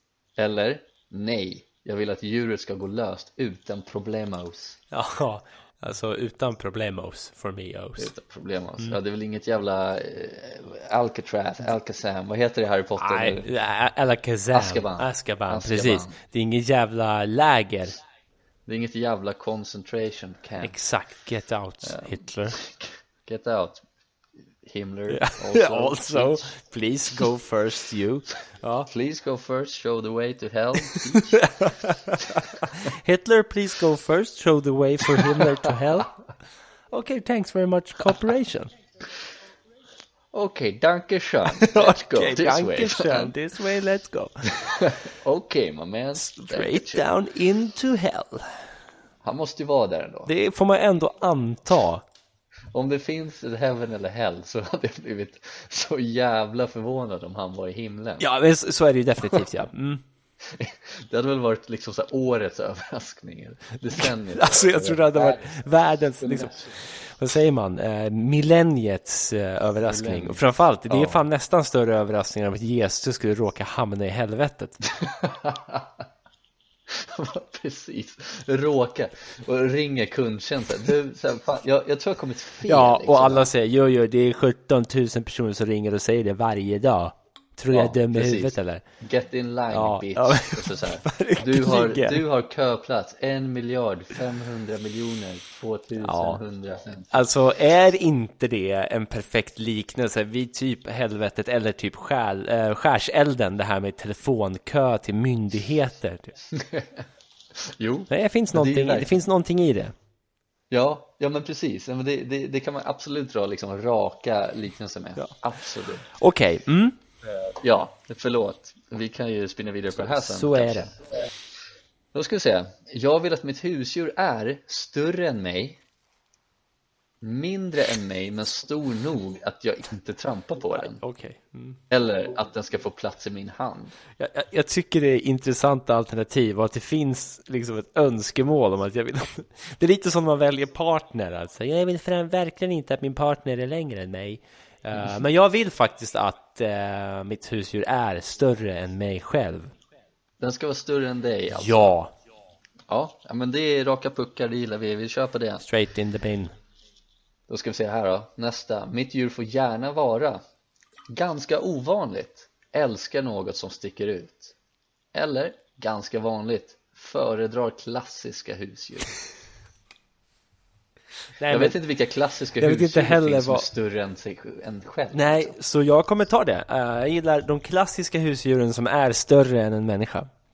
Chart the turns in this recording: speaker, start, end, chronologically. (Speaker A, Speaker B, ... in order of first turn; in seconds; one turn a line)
Speaker A: 0.4-4.8
Speaker B: 4.9-8.1
Speaker A: 8.0-13.5
Speaker B: 13.0-18.0
Speaker A: 14.5-16.2
Speaker A: 18.7-20.8
Speaker B: 20.6-22.6
Speaker A: 21.8-23.8
Speaker A: 24.6-26.5
Speaker B: 25.1-28.9
Speaker A: 28.9-31.4
Speaker B: 30.9-36.1
Speaker A: 32.3-32.7
Speaker B: 36.9-38.7
Speaker A: 40.3-43.3
Speaker B: 41.5-44.5
Speaker A: 44.5-47.1
Speaker B: 46.2-48.5
Speaker A: 49.2-50.3
Speaker B: 50.3-52.0
Speaker A: 52.7-58.3
Speaker B: 58.2-60.0
Speaker A: 60.4-65.7
Speaker B: 64.0-74.8
Speaker A: 66.2-66.7
Speaker A: 69.8-71.3
Speaker A: 75.0-76.0
Speaker A: 76.9-83.5
Speaker B: 82.7-88.8
Speaker A: 87.7-97.1
Speaker B: 89.7-92.2
Speaker B: 96.0-96.4
Speaker B: 97.1-106.4
Speaker A: 106.5-107.0
Speaker A: 107.6-109.2
Speaker B: 108.1-110.0
Speaker A: 110.7-116.1
Speaker B: 116.1-117.0
Speaker A: 117.4-121.0
Speaker B: 120.0-120.9
Speaker A: 122.1-125.8
Speaker A: 127.2-131.0
Speaker B: 130.7-131.8
Speaker A: 131.9-133.9
Speaker B: 134.2-149.8
Speaker A: 150.4-151.9
Speaker B: 151.5-152.1
Speaker A: 152.9-155.7
Speaker B: 155.6-156.5
Speaker A: 157.5-160.4
Speaker A: 161.1-164.6
Speaker A: 165.1-169.2
Speaker B: 171.4-171.8
Speaker A: 171.5-175.6
Speaker B: 172.6-173.7
Speaker B: 175.1-180.3